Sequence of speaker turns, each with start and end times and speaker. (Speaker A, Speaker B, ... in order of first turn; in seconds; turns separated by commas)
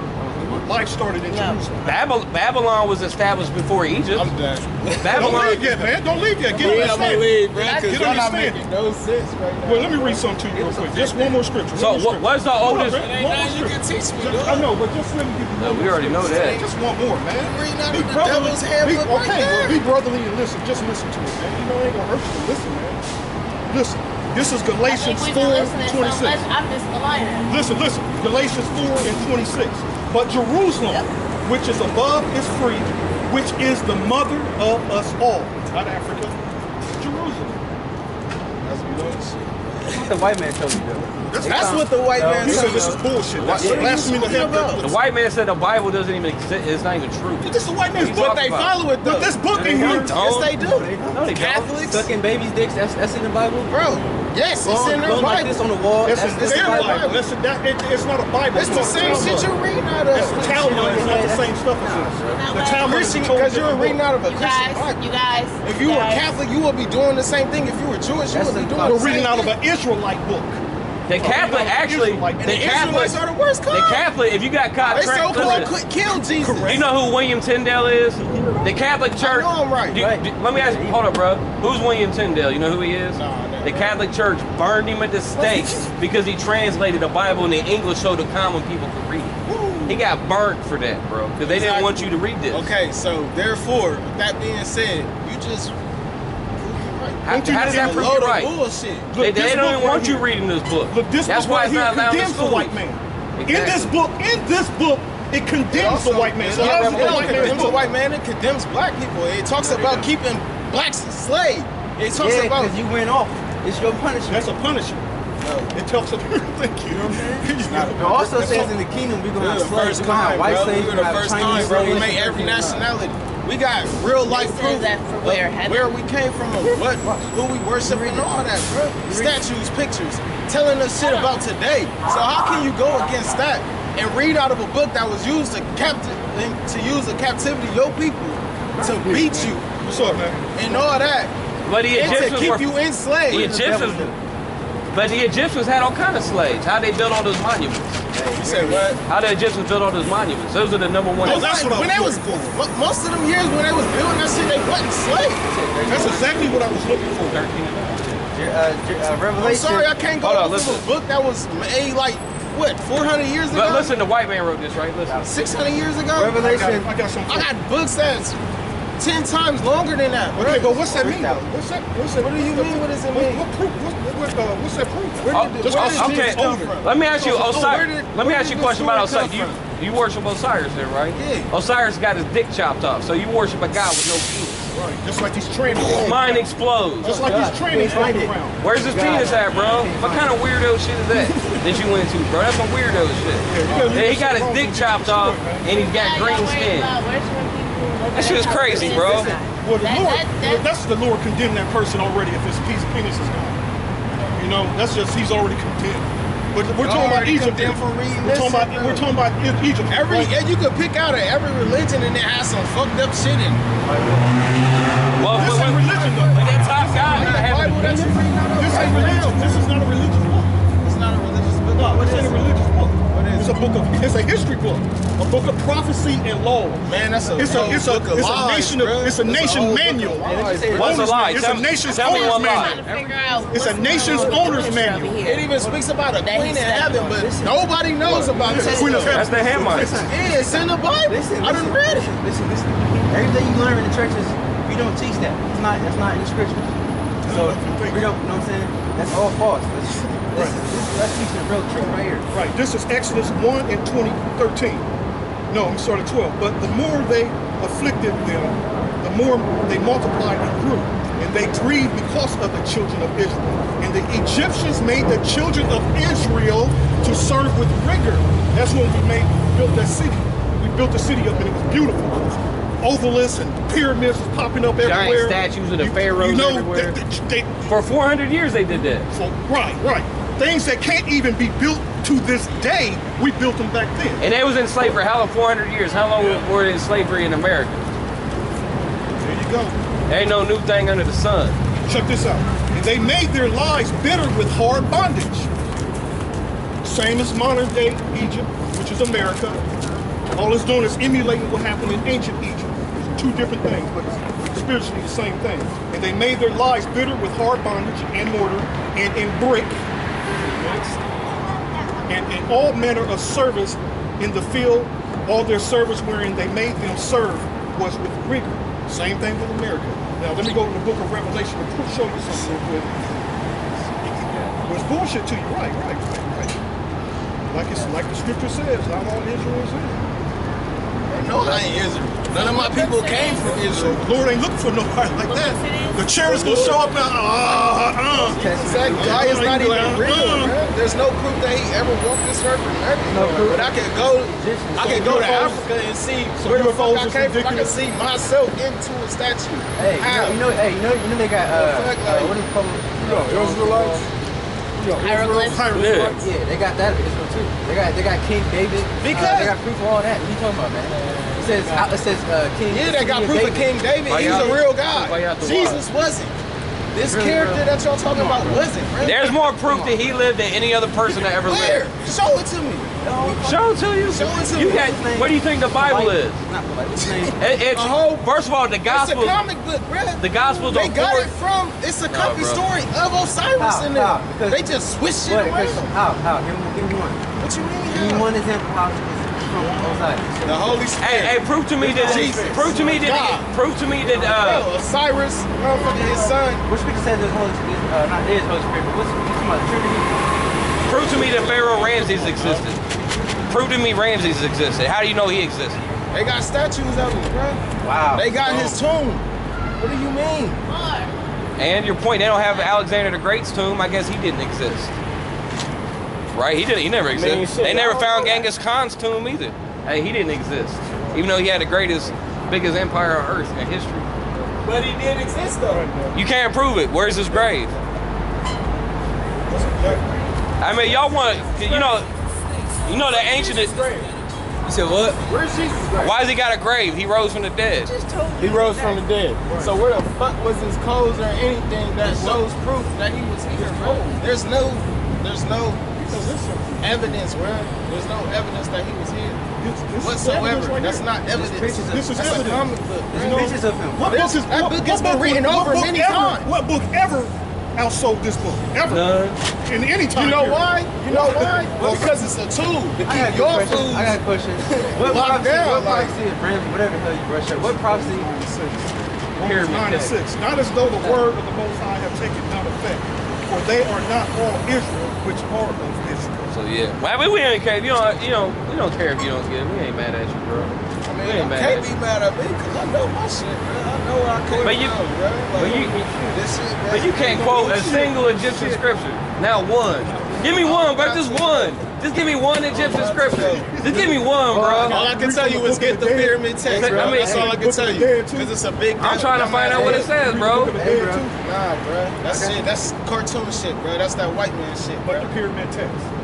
Speaker A: 0.2-0.6, Speaker B: 0.3-1.9, Speaker C: 1.3-1.6, Speaker D: 1.8-4.3, Speaker E: 4.1-5.9, Speaker D: 5.0-5.6, Speaker B: 5.1-8.6, Speaker E: 6.5-11.4, Speaker C: 7.5-8.2, Speaker B: 9.6-23.0, Speaker D: 11.7-13.1, Speaker E: 12.7-14.7, Speaker D: 15.6-16.6, Speaker E: 16.1-16.7, Speaker E: 17.4-19.8, Speaker B: 23.7-26.4, Speaker C: 24.8-27.5, Speaker B: 27.5-36.4, Speaker B: 37.0-37.6, Speaker E: 38.6-40.0, Speaker A: 39.9-43.0, Speaker B: 41.3-45.0, Speaker E: 41.4-44.8, Speaker D: 43.4-43.9, Speaker A: 43.6-44.1, Speaker D: 44.8-48.8, Speaker B: 47.4-48.3, Speaker E: 48.1-52.0, Speaker B: 49.0-50.2, Speaker D: 49.5-51.8, Speaker A: 50.6-51.2, Speaker A: 51.9-53.7, Speaker E: 53.6-55.5, Speaker A: 54.6-57.2, Speaker B: 55.0-55.5, Speaker B: 56.0-64.0, Speaker E: 56.2-57.2, Speaker E: 58.5-61.2, Speaker A: 58.6-59.5, Speaker A: 60.1-62.4, Speaker C: 62.3-63.0, Speaker E: 62.7-65.0, Speaker C: 64.2-66.2, Speaker E: 65.6-69.5, Speaker A: 68.3-69.3, Speaker B: 68.8-70.6, Speaker D: 71.1-75.7, Speaker B: 71.2-73.0, Speaker E: 72.4-74.1, Speaker E: 74.8-76.8, Speaker B: 75.0-75.7, Speaker B: 76.4-76.9, Speaker D: 76.7-89.3, Speaker B: 78.2-78.8, Speaker E: 79.2-80.0, Speaker A: 79.9-81.0, Speaker E: 83.1-84.0, Speaker E: 85.4-85.8, Speaker B: 89.5-89.9, Speaker D: 89.9-92.7, Speaker E: 91.4-95.7, Speaker E: 96.6-99.1, Speaker D: 97.2-98.5, Speaker B: 97.2-98.3, Speaker B: 99.1-100.3, Speaker D: 99.2-102.8, Speaker B: 100.9-107.9, Speaker D: 103.4-103.9, Speaker E: 105.7-112.7, Speaker A: 106.4-107.8, Speaker A: 109.6-110.1, Speaker A: 112.1-114.5, Speaker B: 114.3-115.1, Speaker E: 115.4-115.7, Speaker B: 115.7-118.8, Speaker A: 116.9-122.9, Speaker E: 117.0-118.7, Speaker E: 119.4-141.3, Speaker C: 124.3-125.9, Speaker A: 126.7-127.3, Speaker A: 127.8-128.4, Speaker A: 129.0-129.4, Speaker A: 139.0-139.4, Speaker B: 139.1-140.5, Speaker D: 141.6-142.8, Speaker E: 141.9-143.6, Speaker A: 142.0-142.6, Speaker D: 143.3-144.1, Speaker A: 143.3-144.2, Speaker D: 144.9-148.0, Speaker A: 148.1-149.0, Speaker E: 148.3-149.0, Speaker D: 149.1-151.5, Speaker E: 151.2-155.4, Speaker B: 151.2-152.6, Speaker A: 155.4-156.6, Speaker B: 155.9-157.4, Speaker D: 157.2-158.2, Speaker A: 158.3-159.9, Speaker E: 159.3-163.9, Speaker D: 160.2-160.8, Speaker D: 163.5-165.5, Speaker E: 165.2-166.8, Speaker A: 166.1-166.9, Speaker B: 166.4-167.5, Speaker E: 167.3-168.4, Speaker E: 169.0-171.2, Speaker B: 170.3-177.6, Speaker A: 170.9-171.4, Speaker E: 172.2-173.4, Speaker E: 175.2-179.6, Speaker D: 175.3-184.7, Speaker E: 181.1-181.5, Speaker B: 184.7-189.1, Speaker D: 185.8-196.9, Speaker A: 187.0-190.3, Speaker E: 189.0-189.7, Speaker B: 191.1-191.9, Speaker B: 193.5-195.7, Speaker E: 193.6-194.1, Speaker C: 195.7-200.7, Speaker D: 198.1-199.3, Speaker A: 198.9-199.3, Speaker B: 199.6-203.6, Speaker B: 204.3-210.3, Speaker E: 206.8-209.1, Speaker E: 209.9-213.6, Speaker D: 215.2-218.2, Speaker B: 215.3-220.5, Speaker E: 215.3-219.7, Speaker E: 220.8-222.5, Speaker B: 221.7-232.9, Speaker E: 223.1-223.7, Speaker E: 226.8-231.0, Speaker A: 227.4-227.8, Speaker A: 229.4-231.1, Speaker D: 230.7-232.8, Speaker C: 231.8-235.7, Speaker A: 232.8-234.4, Speaker B: 233.4-235.2, Speaker E: 235.2-239.2, Speaker C: 236.2-237.2, Speaker A: 237.1-252.3, Speaker B: 238.3-240.1, Speaker D: 239.1-240.1, Speaker E: 240.1-242.1, Speaker B: 247.2-248.2, Speaker B: 250.3-250.6, Speaker B: 252.3-254.9, Speaker B: 255.5-277.6, Speaker D: 274.8-276.9, Speaker D: 277.6-279.1, Speaker B: 279.1-284.2, Speaker D: 284.2-287.9, Speaker B: 289.2-289.8, Speaker D: 290.1-291.6, Speaker B: 291.9-295.5, Speaker B: 296.8-299.6, Speaker B: 300.3-309.8, Speaker B: 310.4-311.0, Speaker B: 312.1-323.3, Speaker B: 324.0-326.6, Speaker D: 324.2-324.6, Speaker B: 327.5-330.0, Speaker E: 331.1-334.0, Speaker B: 331.3-340.6, Speaker C: 332.3-333.7, Speaker C: 335.2-336.8, Speaker E: 336.2-337.0, Speaker A: 336.5-336.7, Speaker E: 338.1-350.4, Speaker A: 338.3-339.3, Speaker A: 343.1-345.4, Speaker B: 343.1-343.6, Speaker B: 344.8-345.7, Speaker B: 346.4-347.8, Speaker A: 349.8-354.1, Speaker E: 351.5-352.4, Speaker B: 353.1-354.0, Speaker E: 353.1-354.0, Speaker B: 354.8-356.3, Speaker C: 354.9-355.7, Speaker D: 355.7-356.1, Speaker A: 356.2-363.8, Speaker E: 359.0-359.5, Speaker E: 362.7-366.3, Speaker D: 364.1-365.8, Speaker E: 366.9-369.5, Speaker A: 367.0-367.7, Speaker A: 368.2-368.6, Speaker D: 369.0-371.9, Speaker A: 369.6-370.0, Speaker E: 371.1-373.0, Speaker A: 373.0-373.6, Speaker D: 373.4-376.4, Speaker E: 374.1-374.8, Speaker A: 374.5-377.3, Speaker E: 376.9-378.2, Speaker D: 377.4-379.4, Speaker E: 378.9-385.9, Speaker D: 380.2-381.3, Speaker D: 382.1-382.6, Speaker A: 383.6-384.7, Speaker A: 385.2-387.2, Speaker E: 387.4-388.3, Speaker A: 387.9-390.3, Speaker B: 389.6-390.9, Speaker E: 390.4-393.5, Speaker D: 391.0-394.7, Speaker B: 391.8-392.9, Speaker A: 392.1-392.3, Speaker E: 394.0-396.6, Speaker A: 396.6-400.1, Speaker D: 400.9-402.8, Speaker E: 401.4-402.6, Speaker D: 403.5-405.8, Speaker E: 406.1-407.6, Speaker A: 407.8-408.8, Speaker E: 408.1-409.2, Speaker E: 409.8-410.6, Speaker C: 410.6-411.1, Speaker D: 411.6-414.9, Speaker D: 416.3-424.1, Speaker E: 417.1-418.5, Speaker E: 424.6-425.8, Speaker B: 425.6-426.2, Speaker D: 426.1-427.7, Speaker B: 429.5-430.1, Speaker D: 430.6-432.1, Speaker D: 432.9-433.8, Speaker E: 433.1-434.1, Speaker E: 435.2-436.1, Speaker D: 436.0-437.9, Speaker E: 438.3-446.0, Speaker B: 439.4-439.7, Speaker B: 442.1-442.4, Speaker A: 442.1-442.5, Speaker B: 443.5-444.2, Speaker B: 446.1-447.2, Speaker E: 446.8-449.4, Speaker B: 449.6-451.2, Speaker E: 450.0-456.5, Speaker A: 451.3-452.6, Speaker B: 451.8-462.3, Speaker A: 453.1-454.1, Speaker D: 458.9-459.4, Speaker E: 460.1-466.1, Speaker A: 463.0-468.3, Speaker B: 465.0-465.8, Speaker B: 467.6-476.5, Speaker D: 469.4-470.2, Speaker D: 471.0-471.2, Speaker D: 476.5-481.9, Speaker E: 481.0-487.8, Speaker D: 484.6-485.0, Speaker D: 485.5-495.0, Speaker B: 485.6-486.0, Speaker B: 487.0-488.9, Speaker B: 489.9-490.8, Speaker E: 490.4-491.8, Speaker E: 492.7-493.8, Speaker B: 493.3-494.3, Speaker A: 494.5-495.0, Speaker B: 494.8-498.5, Speaker E: 494.9-500.1, Speaker D: 496.7-497.5, Speaker A: 496.7-497.5, Speaker D: 499.0-500.8, Speaker A: 499.7-500.1, Speaker B: 499.7-501.4, Speaker A: 500.8-501.3, Speaker E: 501.4-505.3, Speaker A: 502.2-502.6, Speaker B: 505.0-506.1